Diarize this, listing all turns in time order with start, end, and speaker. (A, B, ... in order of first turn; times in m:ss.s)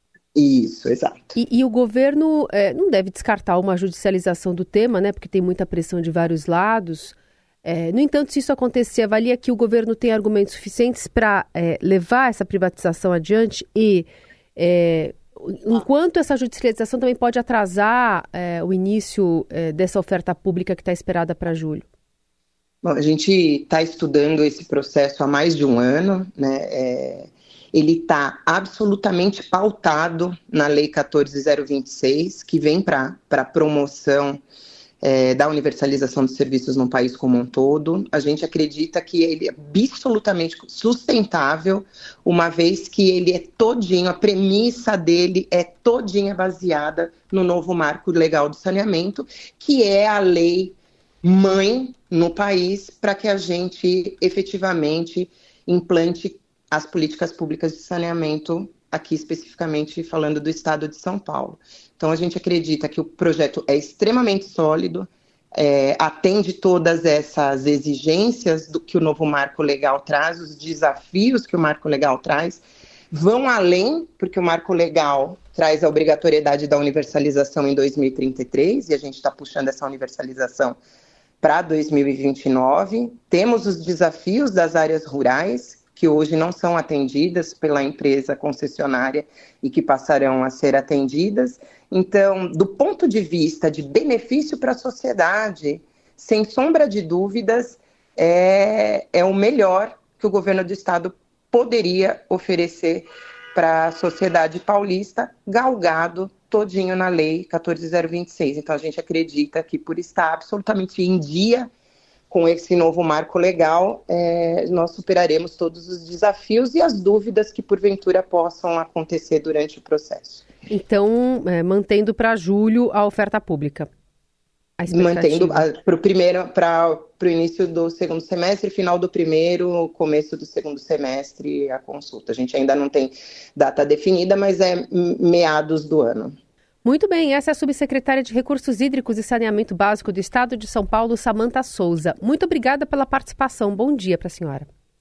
0:00.3-0:01.4 A
0:01.4-0:21.9 B
0:22.8-0:34.4 A
0:35.0-1:20.8 A
1:21.4-1:51.7 A
1:52.3-2:00.5 A
2:00.7-2:03.9 B
2:04.8-2:05.6 B
2:04.9-2:16.3 A
2:16.8-2:24.7 B